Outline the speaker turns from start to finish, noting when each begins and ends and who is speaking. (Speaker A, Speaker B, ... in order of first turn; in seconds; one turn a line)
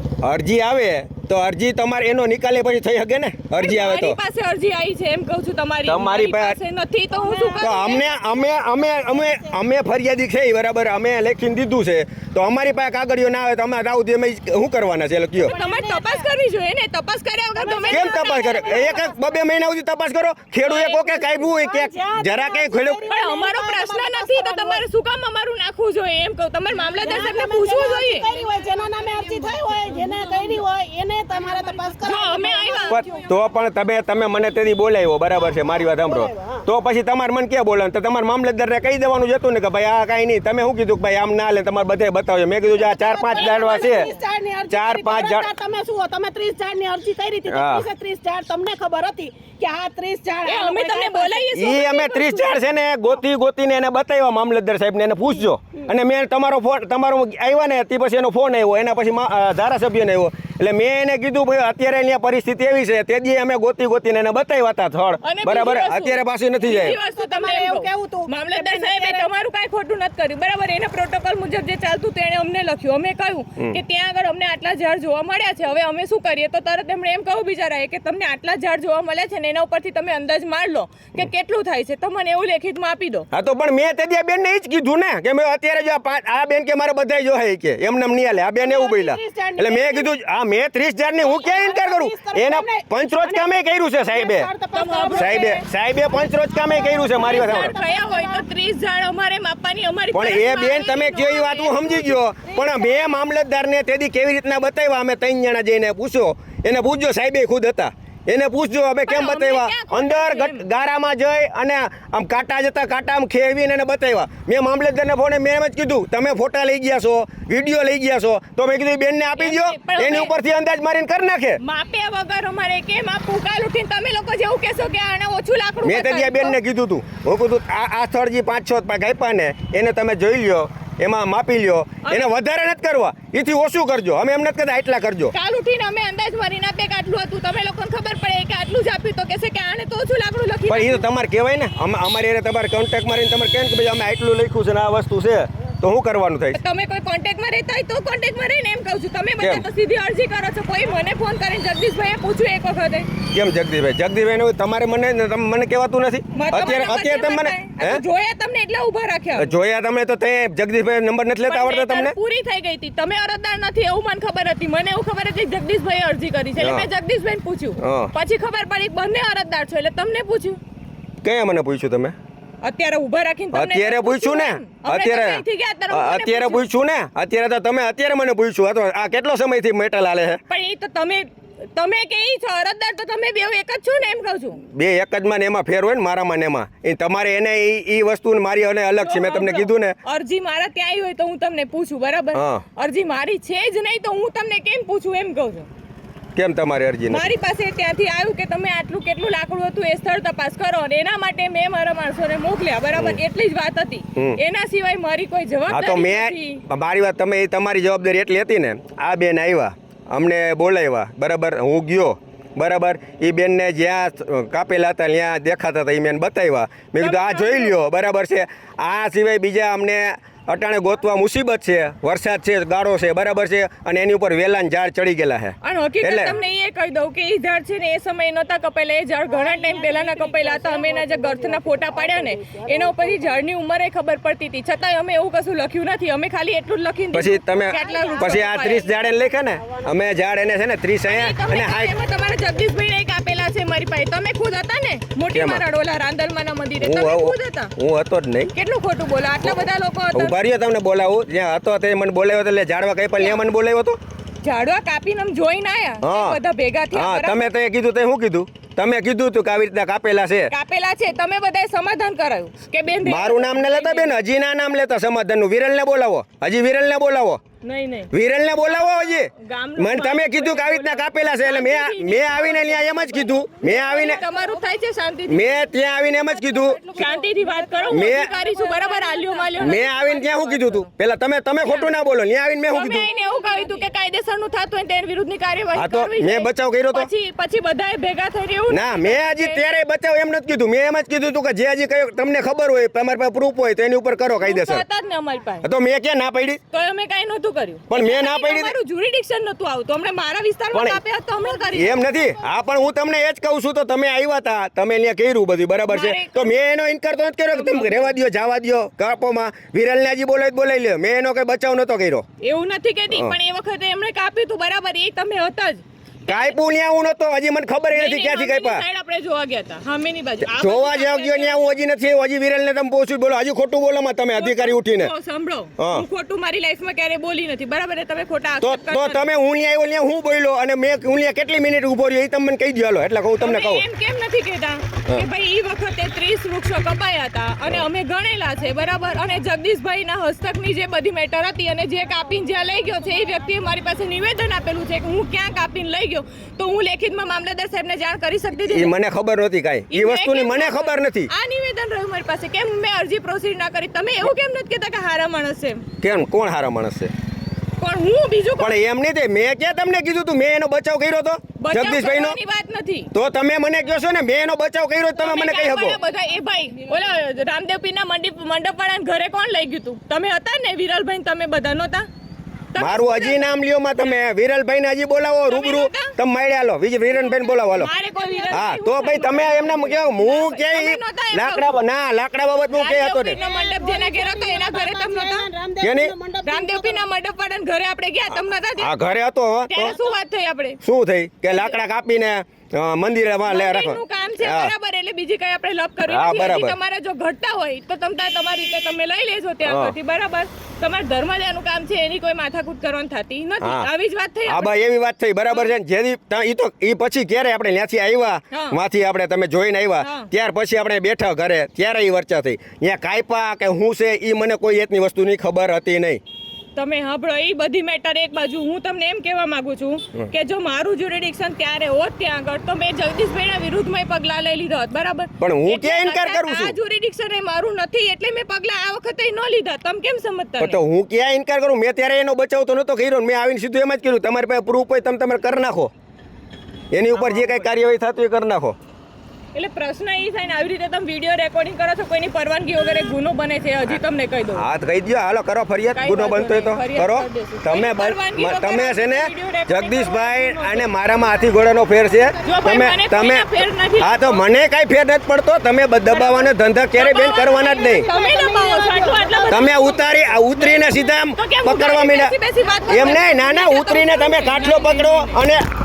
Speaker A: 0.2-4.2
Speaker B: 3.6-8.0
Speaker A: 5.8-6.6
Speaker C: 7.1-9.6
Speaker A: 7.6-15.5
Speaker C: 15.4-16.3
Speaker B: 15.4-18.9
Speaker C: 17.6-19.2
Speaker A: 17.9-23.0
Speaker C: 20.6-24.8
Speaker B: 23.1-28.3
Speaker C: 26.7-33.3
Speaker B: 32.0-33.0
Speaker A: 32.9-44.1
Speaker C: 36.0-36.6
Speaker C: 42.8-51.6
Speaker B: 43.3-44.1
Speaker A: 44.7-45.5
Speaker A: 47.5-47.9
Speaker B: 50.4-52.4
Speaker A: 51.5-67.0
Speaker B: 65.2-83.2
Speaker C: 66.8-69.3
Speaker A: 83.3-94.5
Speaker C: 88.6-90.1
Speaker C: 91.2-98.4
Speaker B: 94.7-95.6
Speaker A: 95.1-97.7
Speaker B: 97.2-102.2
Speaker A: 100.1-121.6
Speaker C: 102.5-102.8
Speaker B: 109.1-110.7
Speaker B: 119.4-120.3
Speaker B: 121.6-126.6
Speaker A: 125.8-135.3
Speaker B: 132.0-132.3
Speaker B: 135.3-141.0
Speaker A: 140.7-146.6
Speaker B: 146.5-153.1
Speaker A: 149.4-149.6
Speaker A: 153.3-158.0
Speaker B: 156.3-159.5
Speaker A: 159.3-162.1
Speaker B: 161.5-170.6
Speaker A: 166.6-166.9
Speaker A: 167.8-168.1
Speaker A: 171.2-172.1
Speaker B: 172.6-176.7
Speaker A: 173.5-180.4
Speaker B: 180.5-184.6
Speaker A: 184.6-190.0
Speaker B: 189.0-195.7
Speaker A: 192.3-192.6
Speaker A: 196.3-197.3
Speaker B: 197.1-206.6
Speaker A: 202.9-203.2
Speaker A: 205.7-226.3
Speaker B: 217.0-217.8
Speaker B: 225.6-238.9
Speaker C: 229.3-233.4
Speaker A: 237.1-241.9
Speaker C: 237.7-238.5
Speaker B: 241.1-247.7
Speaker C: 242.0-242.3
Speaker A: 245.3-245.6
Speaker A: 246.8-248.5
Speaker B: 248.5-250.3
Speaker A: 249.4-254.0
Speaker B: 253.2-253.4
Speaker B: 254.4-257.5
Speaker A: 256.0-256.4
Speaker A: 256.9-260.5
Speaker B: 260.5-264.2
Speaker A: 263.0-267.4
Speaker B: 267.6-268.1
Speaker A: 268.1-274.2
Speaker B: 268.6-275.7
Speaker A: 275.3-277.2
Speaker C: 276.4-279.7
Speaker B: 276.9-280.9
Speaker A: 277.9-278.3
Speaker A: 279.6-283.1
Speaker B: 281.6-281.9
Speaker B: 282.7-289.6
Speaker C: 283.2-283.5
Speaker A: 285.7-287.1
Speaker A: 288.7-294.8
Speaker B: 294.4-295.7
Speaker A: 295.6-296.6
Speaker B: 296.7-302.2
Speaker A: 297.9-298.7
Speaker A: 300.7-301.0
Speaker A: 301.7-312.2
Speaker B: 305.9-306.6
Speaker B: 307.5-308.1
Speaker B: 312.4-316.6
Speaker A: 316.3-318.8
Speaker B: 317.9-321.8
Speaker A: 320.4-325.1
Speaker B: 324.4-329.3
Speaker A: 325.8-326.1
Speaker A: 328.6-333.8
Speaker B: 333.4-348.9
Speaker A: 348.6-351.3
Speaker B: 349.9-355.8
Speaker A: 356.0-357.1
Speaker B: 357.8-358.8
Speaker A: 358.6-362.4
Speaker B: 361.6-363.1
Speaker A: 363.1-366.0
Speaker B: 365.2-372.1
Speaker B: 372.7-373.5
Speaker A: 372.8-377.9
Speaker B: 375.5-376.1
Speaker B: 377.1-381.8
Speaker C: 377.8-378.7
Speaker A: 378.5-383.4
Speaker B: 382.7-385.5
Speaker C: 383.3-387.1
Speaker A: 385.8-386.1
Speaker B: 386.4-388.9
Speaker A: 388.8-389.9
Speaker B: 389.7-390.8
Speaker A: 390.8-394.7
Speaker B: 391.5-391.8
Speaker B: 393.5-404.8
Speaker A: 396.0-396.8
Speaker A: 399.6-399.9
Speaker A: 403.6-403.9
Speaker A: 404.4-416.2
Speaker B: 408.5-408.8
Speaker B: 410.0-410.3
Speaker B: 416.7-430.8
Speaker A: 425.4-426.8
Speaker A: 430.6-435.9
Speaker A: 436.9-438.8
Speaker B: 437.1-437.6
Speaker B: 439.5-444.6
Speaker A: 444.5-458.1
Speaker B: 445.9-451.0
Speaker B: 452.4-454.4
Speaker B: 456.1-465.4
Speaker C: 457.3-459.9
Speaker A: 459.5-462.3
Speaker A: 462.9-465.6